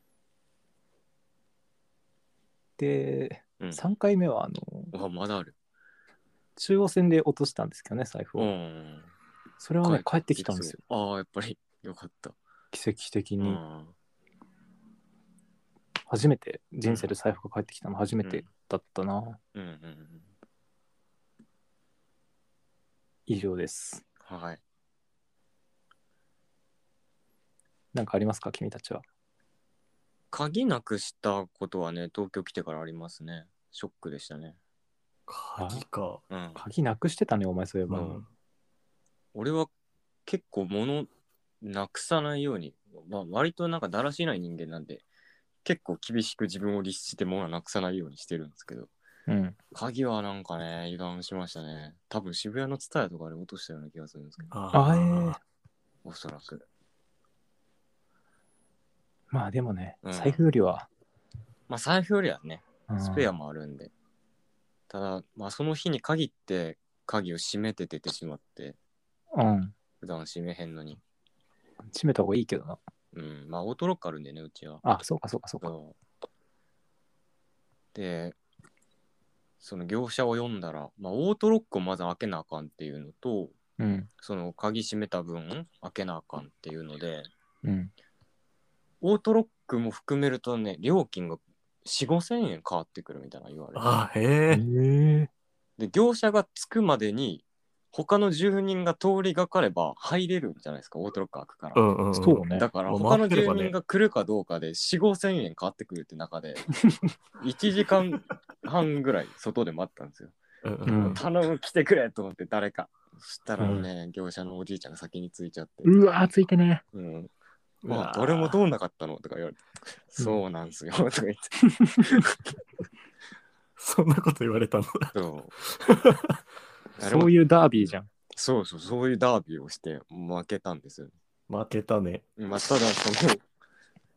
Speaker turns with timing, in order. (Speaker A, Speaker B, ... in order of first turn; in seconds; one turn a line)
Speaker A: 2.8-4.9
Speaker B: 4.9-5.5
Speaker A: 6.6-8.5
Speaker B: 8.4-9.1
Speaker A: 9.6-10.8
Speaker B: 9.8-12.4
Speaker A: 12.7-13.6
Speaker B: 13.4-13.9
Speaker A: 16.1-19.4
Speaker B: 16.9-17.1
Speaker B: 19.5-20.2
Speaker A: 23.3-24.1
Speaker B: 24.2-24.6
Speaker A: 27.9-29.0
Speaker B: 30.3-34.6
Speaker C: 35.3-36.2
Speaker A: 35.6-35.8
Speaker B: 36.3-36.6
Speaker A: 36.6-38.2
Speaker C: 37.9-38.2
Speaker B: 39.3-39.7
Speaker B: 40.3-41.1
Speaker B: 41.6-45.0
Speaker B: 45.6-48.9
Speaker A: 49.3-49.6
Speaker B: 49.7-54.5
Speaker C: 54.5-55.4
Speaker A: 54.7-55.4
Speaker B: 56.0-56.7
Speaker A: 59.3-60.9
Speaker B: 60.0-60.4
Speaker B: 61.7-63.9
Speaker A: 62.9-63.3
Speaker B: 64.9-68.8
Speaker A: 69.3-69.7
Speaker B: 70.0-71.0
Speaker A: 71.9-72.8
Speaker B: 73.1-74.8
Speaker A: 74.8-75.7
Speaker B: 75.6-76.0
Speaker B: 77.9-78.4
Speaker B: 79.6-83.6
Speaker A: 83.8-84.1
Speaker B: 84.2-87.3
Speaker A: 87.6-87.9
Speaker B: 89.0-93.9
Speaker C: 93.8-94.6
Speaker A: 94.5-95.3
Speaker B: 95.8-101.8
Speaker C: 101.8-103.7
Speaker A: 102.1-102.7
Speaker B: 102.5-106.7
Speaker B: 107.4-110.4
Speaker C: 110.6-111.2
Speaker A: 110.9-111.2
Speaker B: 111.0-116.0
Speaker A: 113.6-113.9
Speaker A: 115.8-116.8
Speaker B: 116.9-117.3
Speaker C: 117.8-118.6
Speaker B: 117.9-122.3
Speaker C: 123.8-126.4
Speaker B: 125.1-125.5
Speaker B: 127.0-131.1
Speaker A: 127.0-128.1
Speaker C: 131.5-132.2
Speaker B: 132.4-133.4